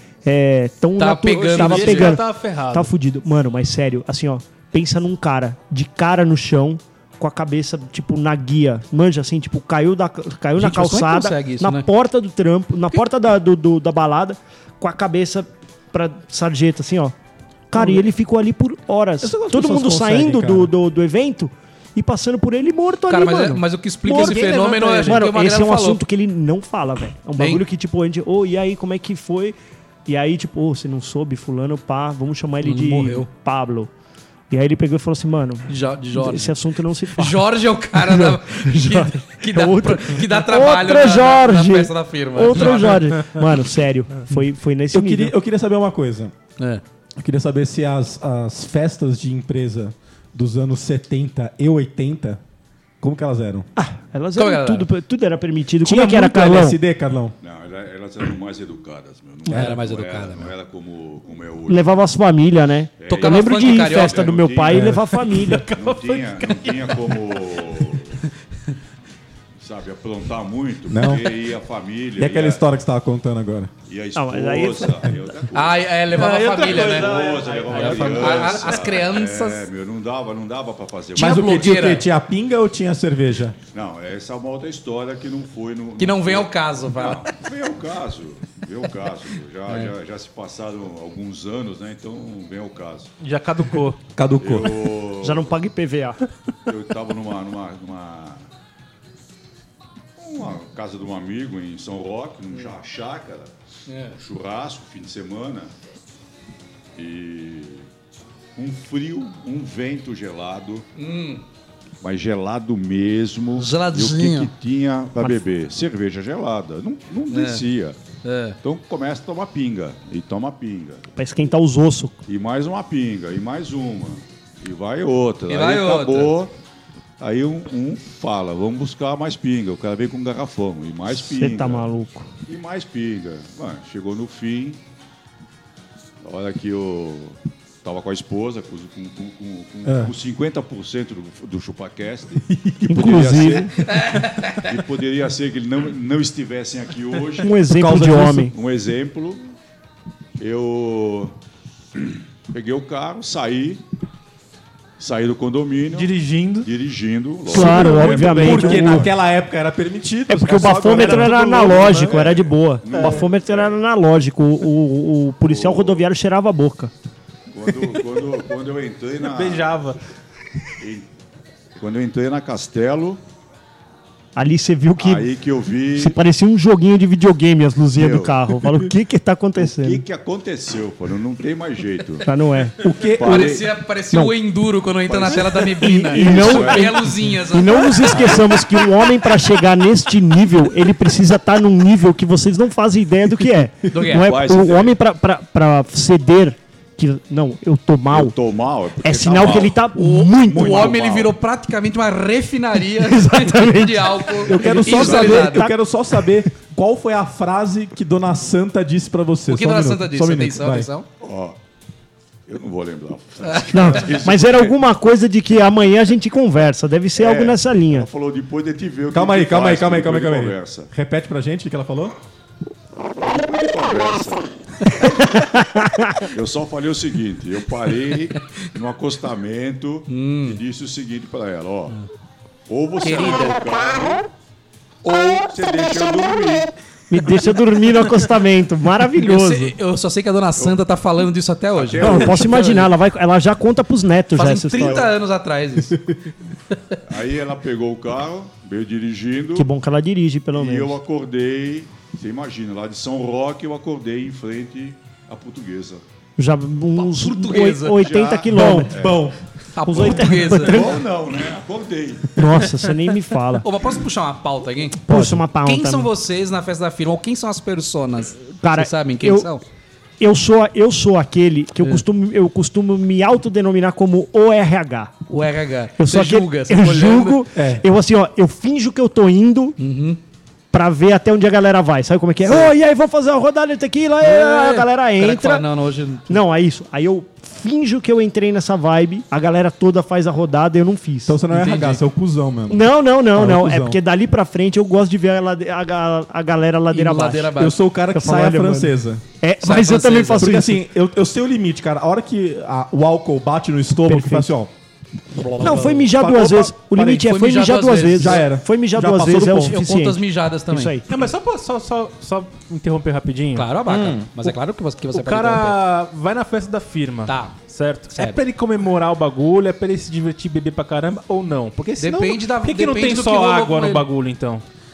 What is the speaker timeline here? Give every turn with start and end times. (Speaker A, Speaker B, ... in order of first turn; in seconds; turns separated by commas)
Speaker A: 0.2-17.1, Speaker B: 1.0-2.2, Speaker C: 1.5-2.9, Speaker B: 10.6-11.9, Speaker A: 17.7-29.6, Speaker D: 19.2-20.7, Speaker B: 23.1-26.0, Speaker C: 24.2-25.2, Speaker A: 30.1-33.9, Speaker B: 32.6-33.3, Speaker A: 34.5-45.3, Speaker B: 35.7-36.6, Speaker B: 37.1-43.3, Speaker D: 44.9-46.3, Speaker D: 47.2-52.4, Speaker D: 53.0-53.7, Speaker A: 53.8-56.8, Speaker B: 54.4-54.9, Speaker D: 55.8-57.4, Speaker E: 57.4-62.0, Speaker B: 59.5-60.5, Speaker A: 61.7-65.7, Speaker E: 63.0-65.0, Speaker B: 63.1-64.3, Speaker D: 64.7-65.0, Speaker C: 65.2-67.3, Speaker E: 65.7-68.2, Speaker E: 69.6-72.6, Speaker D: 70.9-71.4, Speaker D: 72.2-73.7, Speaker E: 73.9-81.8, Speaker A: 74.2-75.1, Speaker B: 75.5-79.7, Speaker C: 76.1-78.9, Speaker B: 81.2-82.1, Speaker D: 81.2-83.6, Speaker E: 83.7-93.1, Speaker B: 86.0-87.3, Speaker B: 89.7-89.9, Speaker C: 93.2-94.0, Speaker D: 94.2-94.9, Speaker E: 94.4-95.6, Speaker A: 95.2-96.2, Speaker E: 96.7-98.5, Speaker E: 100.2-103.5, Speaker B: 103.9-104.2, Speaker E: 104.2-105.7, Speaker E: 107.0-107.9, Speaker E: 108.6-110.9, Speaker B: 111.0-111.4, Speaker E: 112.0-118.0, Speaker B: 113.6-114.5, Speaker B: 117.3-117.7, Speaker B: 118.2-118.6, Speaker E: 118.6-121.1, Speaker A: 121.2-122.2, Speaker E: 122.3-126.5, Speaker B: 125.5-126.3, Speaker E: 127.2-131.9, Speaker A: 131.1-132.3, Speaker E: 132.5-134.8, Speaker E: 136.2-147.5, Speaker D: 139.8-140.1, Speaker D: 142.5-143.3, Speaker A: 142.9-143.7, Speaker B: 144.0-144.6, Speaker A: 147.4-148.5, Speaker D: 147.7-148.5, Speaker E: 148.2-149.4, Speaker E: 150.4-151.3, Speaker E: 151.9-153.8, Speaker E: 155.0-159.0, Speaker C: 155.9-156.7, Speaker A: 157.5-159.1, Speaker D: 157.5-161.8, Speaker A: 160.3-166.9, Speaker E: 160.8-163.8, Speaker C: 160.9-162.0, Speaker E: 165.4-166.1, Speaker E: 167.5-169.8, Speaker C: 169.2-170.0, Speaker E: 170.8-171.1, Speaker E: 171.8-173.2, Speaker A: 174.4-175.3, Speaker E: 175.0-176.2, Speaker A: 175.9-180.0, Speaker E: 177.9-178.6, Speaker E: 179.6-182.3, Speaker A: 182.2-182.8, Speaker D: 182.8-183.6, Speaker E: 183.2-183.7, Speaker B: 183.2-188.8, Speaker E: 185.1-187.3, Speaker A: 185.8-198.3, Speaker E: 188.0-188.4, Speaker B: 193.9-194.3, Speaker E: 193.9-195.0, Speaker E: 198.1-199.8, Speaker A: 199.0-201.0, Speaker B: 199.9-205.7, Speaker E: 200.4-201.3, Speaker A: 203.0-206.4, Speaker D: 204.4-210.9, Speaker B: 209.5-211.1, Speaker E: 211.2-211.6, Speaker E: 212.5-214.8, Speaker B: 213.5-214.0, Speaker A: 213.7-218.1, Speaker E: 217.2-220.9, Speaker D: 219.1-222.2, Speaker E: 223.2-225.3, Speaker A: 225.2-226.2, Speaker E: 226.2-232.0, Speaker B: 230.1-230.6, Speaker E: 232.7-234.3, Speaker B: 233.0-233.6, Speaker E: 235.0-236.7, Speaker A: 237.1-239.8, Speaker B: 239.2-242.9, Speaker E: 241.8-242.9, Speaker A: 242.0-245.1, Speaker B: 244.3-246.1, Speaker E: 244.8-245.1, Speaker E: 247.1-249.7, Speaker A: 249.6-251.0, Speaker E: 250.5-256.0, Speaker A: 256.4-259.0, Speaker B: 257.0-258.2, Speaker E: 257.9-259.3, Speaker D: 258.5-259.4, Speaker B: 259.8-261.0, Speaker A: 259.9-261.0, Speaker E: 260.0-262.4, Speaker A: 262.4-263.7, Speaker B: 263.6-269.6, Speaker A: 265.1-266.1, Speaker D: 265.1-265.4, Speaker A: 268.6-269.5, Speaker A: 270.2-275.1, Speaker B: 275.3-277.5, Speaker A: 276.0-279.8, Speaker D: 277.6-277.8, Speaker B: 279.8-280.2, Speaker A: 280.7-285.6, Speaker B: 284.2-286.4, Speaker A: 286.3-291.4, Speaker D: 291.3-294.0, Speaker B: 291.5-292.0, Speaker A: 292.7-297.5, Speaker B: 296.9-297.8, Speaker D: 297.6-299.2, Speaker A: 298.1-300.9, Speaker B: 299.6-300.5, Speaker D: 300.4-304.7, Speaker A: 304.1-304.5, Speaker B: 305.4-306.1, Speaker A: 305.6-311.1, Speaker D: 305.6-307.3, Speaker B: 307.1-308.5, Speaker D: 308.1-309.8, Speaker B: 309.6-311.0, Speaker C: 311.1-313.7, Speaker B: 313.6-315.8, Speaker D: 313.9-314.3, Speaker C: 315.1-324.6, Speaker B: 317.3-317.6, Speaker B: 318.1-318.4, Speaker B: 322.0-324.1